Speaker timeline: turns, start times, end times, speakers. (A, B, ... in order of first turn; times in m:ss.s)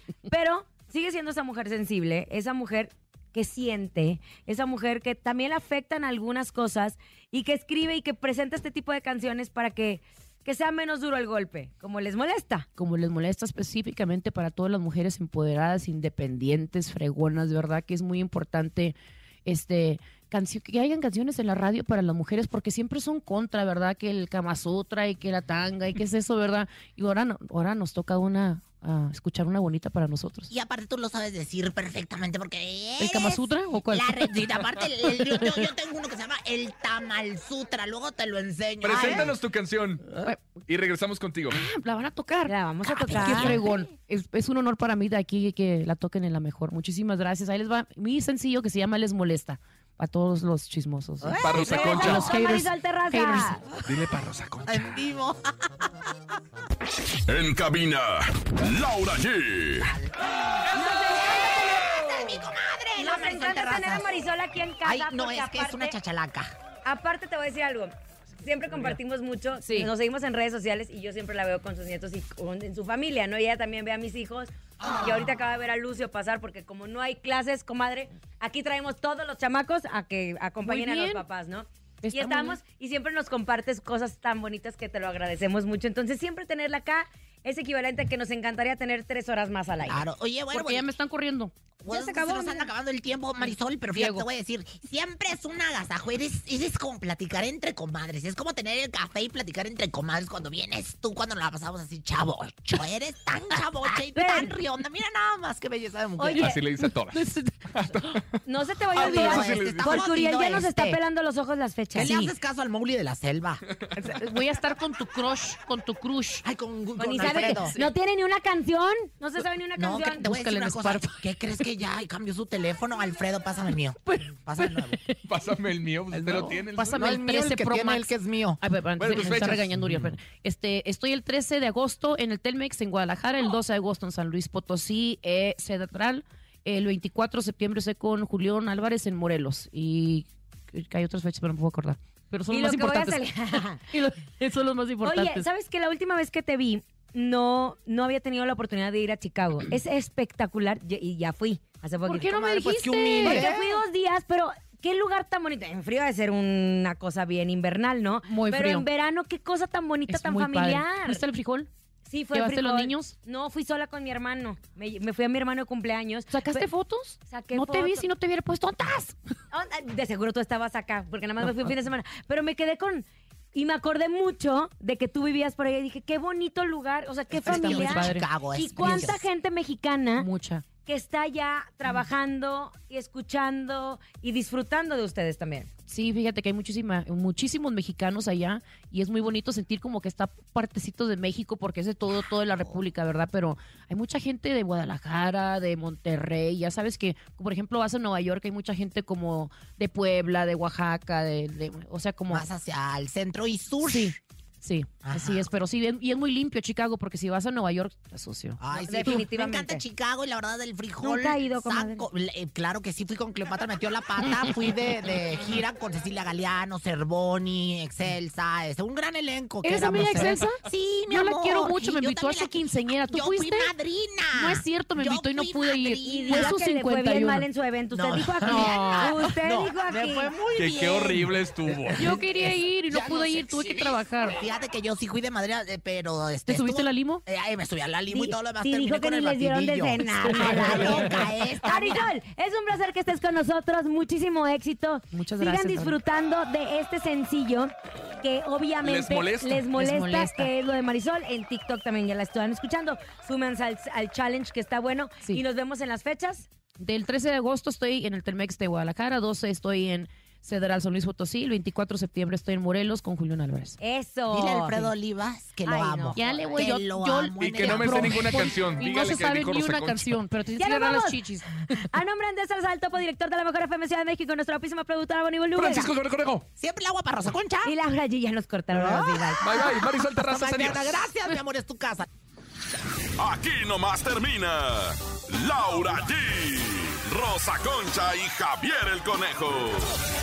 0:00.3-0:12.7 A
0:12.8-0:30.5 B
0:30.5-0:39.4 C
0:33.0-0:34.4 B
0:35.1-0:35.7 B
0:38.8-0:40.1 D
0:40.2-0:40.6 B
0:40.7-0:41.6 D
0:41.5-0:53.6 B
0:42.5-0:43.6 A
0:43.1-0:43.7 C
0:51.2-0:52.1 C
0:51.4-0:52.3 D
0:51.6-0:53.6 A
0:53.8-0:54.9 D
0:54.7-0:55.9 C
0:57.3-0:59.9 E
0:59.8-1:04.2 C
1:00.7-1:02.4 A
1:03.0-1:06.0 A
1:04.8-1:06.5 C
1:06.8-1:30.0 A
1:09.6-1:09.9 B
1:20.6-1:21.2 B
1:22.0-1:22.6 B
1:29.8-1:30.9 C
1:30.5-1:31.6 B
1:31.8-1:46.6 C
1:31.9-1:32.7 A
1:33.9-1:34.3 B
1:43.9-1:44.6 A
1:46.2-1:46.6 A
1:46.3-1:47.6 B
1:46.4-1:50.0 D
1:48.4-1:52.3 A
1:49.0-1:51.0 C
1:52.0-1:52.3 B
1:52.0-1:53.6 C
1:54.0-1:56.4 B
1:56.4-1:57.8 C
1:57.0-2:00.3 A
1:57.1-1:57.9 B
1:59.8-2:05.0 C
2:00.2-2:01.2 B
2:04.0-2:05.2 B
2:05.2-2:07.0 D
2:06.2-2:08.6 C
2:06.3-2:23.3 B
2:09.0-2:10.1 D
2:22.5-2:23.9 A
2:23.8-2:25.4 B
2:25.0-2:32.3 A
2:32.0-2:33.6 B
2:32.2-2:33.6 C
2:33.2-2:41.2 A
2:38.2-2:38.9 B
2:40.1-2:41.7 B
2:42.1-2:46.7 A
2:42.3-2:43.1 B
2:46.3-2:49.2 B
2:47.3-2:48.1 A
2:49.5-3:00.3 A
2:57.3-2:59.3 C
2:57.4-2:58.3 B
2:58.8-2:59.2 B
3:00.2-3:00.7 B
3:00.8-3:05.7 A
3:05.9-3:22.4 B
3:12.5-3:12.7 C
3:22.3-3:24.2 C
3:23.8-3:29.3 B
3:25.0-3:25.5 C
3:28.6-3:46.6 C
3:28.9-3:29.8 A
3:31.0-3:32.0 A
3:39.6-3:43.7 B
3:44.4-3:47.5 B
3:46.0-3:50.3 A
3:47.9-4:02.1 C
3:48.4-3:49.2 B
3:50.6-3:52.1 D
3:52.0-3:54.4 B
3:56.5-3:57.2 B
3:58.1-4:16.5 A
4:05.1-4:06.0 B
4:08.8-4:09.7 D
4:09.7-4:10.5 B
4:16.8-4:23.8 B
4:23.8-4:24.9 A
4:24.3-4:28.6 C
4:25.6-4:26.6 A
4:26.2-4:31.9 B
4:27.4-4:30.2 D
4:30.6-4:31.2 A
4:31.8-4:35.9 A
4:35.6-4:36.4 D
4:36.6-4:37.8 C
4:37.6-4:39.4 A
4:38.7-4:42.0 C
4:39.4-4:41.0 D
4:43.2-4:49.9 E